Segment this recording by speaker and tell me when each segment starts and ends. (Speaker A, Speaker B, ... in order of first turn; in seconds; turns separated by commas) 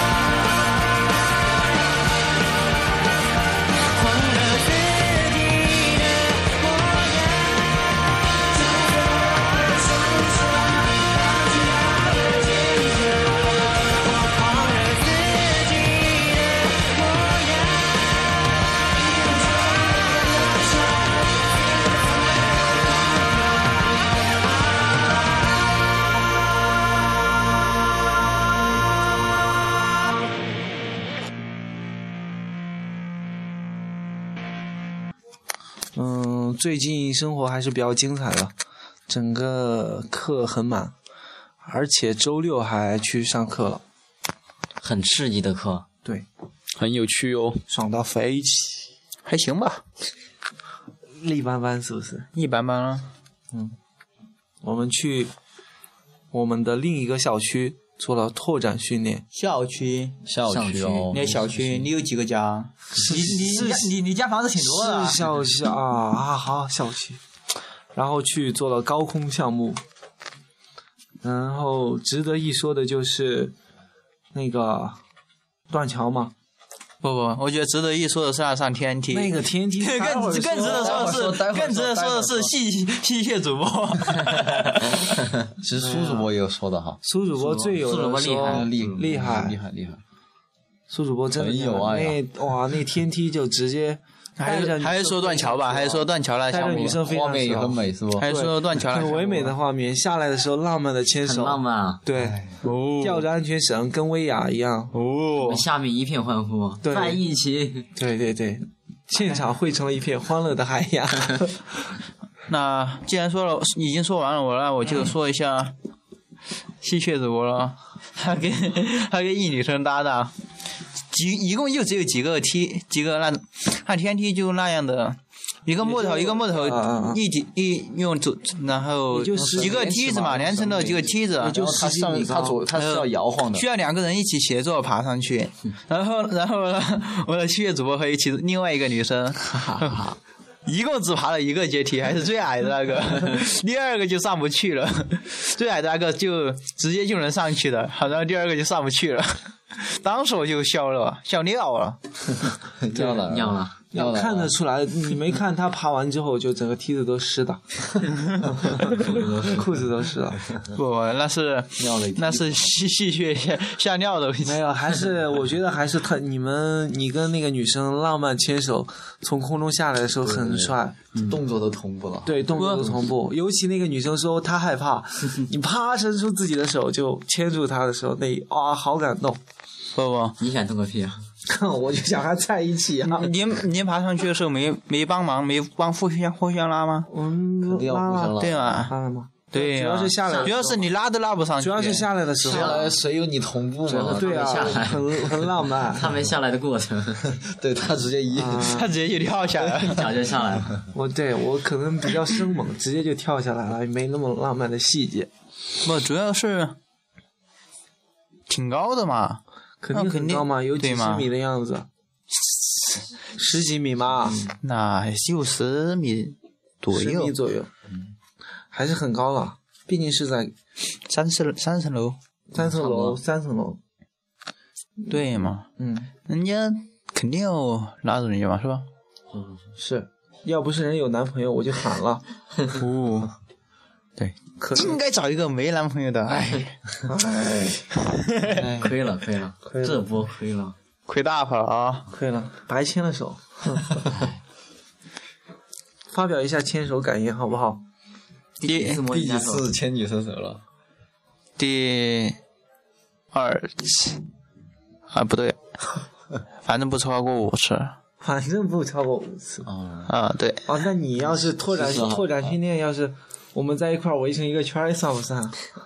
Speaker A: 3.8-22.9, Speaker B: 36.0-38.5, Speaker B: 39.1-40.9, Speaker B: 41.6-43.8, Speaker C: 44.8-45.9, Speaker D: 46.8-47.6, Speaker B: 47.7-48.9, Speaker E: 49.2-49.8, Speaker B: 51.2-52.3, Speaker E: 52.3-53.1, Speaker B: 54.6-55.3, Speaker B: 56.3-59.2, Speaker E: 59.3-60.2, Speaker D: 60.2-61.5, Speaker C: 60.5-61.5, Speaker E: 61.1-65.2, Speaker B: 63.0-63.9, Speaker B: 64.6-67.2, Speaker B: 67.9-69.8, Speaker B: 71.2-73.5, Speaker B: 74.3-75.0, Speaker B: 75.7-76.3, Speaker E: 77.0-85.0, Speaker B: 79.1-81.3, Speaker D: 80.5-82.5, Speaker D: 85.6-87.0, Speaker B: 85.8-86.3, Speaker B: 87.0-89.6, Speaker C: 87.4-88.9, Speaker D: 88.5-90.0, Speaker B: 90.9-102.4, Speaker D: 91.3-92.2, Speaker E: 94.4-97.0, Speaker D: 97.0-98.3, Speaker E: 98.2-99.5, Speaker C: 101.2-102.0, Speaker E: 102.6-103.2, Speaker B: 103.0-104.9, Speaker E: 104.9-105.6, Speaker C: 105.4-107.9, Speaker B: 106.8-107.2, Speaker B: 108.0-111.8, Speaker E: 112.5-115.7, Speaker E: 116.8-120.3, Speaker E: 121.1-131.6, Speaker B: 125.8-127.2, Speaker B: 129.1-132.6, Speaker D: 129.4-129.9, Speaker D: 131.4-133.6, Speaker E: 132.7-140.1, Speaker E: 140.7-152.0, Speaker D: 152.8-154.5, Speaker C: 153.2-153.7, Speaker B: 153.9-160.5, Speaker E: 158.1-158.4, Speaker D: 159.1-159.4, Speaker C: 159.1-159.6, Speaker E: 160.7-164.6, Speaker D: 161.8-162.7, Speaker B: 164.4-170.9, Speaker D: 170.2-172.9, Speaker B: 172.2-179.4, Speaker E: 172.6-172.8, Speaker E: 179.9-180.4, Speaker C: 180.4-181.2, Speaker B: 181.5-183.3, Speaker E: 183.0-187.1, Speaker B: 187.1-190.9, Speaker D: 187.7-188.8, Speaker E: 188.4-188.9, Speaker E: 189.5-192.1, Speaker B: 191.6-192.9, Speaker C: 192.4-192.9, Speaker D: 192.4-195.0, Speaker C: 193.9-197.4, Speaker B: 193.9-196.1, Speaker D: 197.3-198.9, Speaker B: 198.3-198.9, Speaker E: 198.7-200.1, Speaker C: 199.9-200.8, Speaker B: 200.9-205.3, Speaker E: 205.8-206.8, Speaker E: 208.5-209.4, Speaker B: 209.8-211.9, Speaker E: 209.9-211.3, Speaker B: 213.3-214.4, Speaker E: 214.6-217.3, Speaker B: 216.9-217.7, Speaker B: 218.7-220.5, Speaker E: 221.1-222.2, Speaker B: 222.5-223.8, Speaker C: 222.6-223.2, Speaker E: 225.1-225.7, Speaker B: 225.8-226.1, Speaker E: 226.3-228.8, Speaker C: 229.3-229.6, Speaker B: 229.8-232.2, Speaker E: 232.7-233.3, Speaker E: 234.2-236.7, Speaker B: 234.6-235.0, Speaker B: 237.1-237.8, Speaker E: 238.1-238.6, Speaker C: 238.5-240.7, Speaker D: 238.6-238.9, Speaker B: 239.7-240.1, Speaker E: 241.1-242.1, Speaker B: 242.1-244.0, Speaker C: 244.1-244.4, Speaker B: 246.1-247.8, Speaker C: 248.6-249.7, Speaker E: 248.6-249.0, Speaker D: 249.0-250.6, Speaker E: 251.6-252.4, Speaker E: 253.3-254.2, Speaker E: 255.1-255.6, Speaker E: 256.6-257.9, Speaker B: 258.2-259.7, Speaker D: 259.6-260.1, Speaker E: 260.1-260.6, Speaker B: 260.6-265.6, Speaker D: 261.7-262.5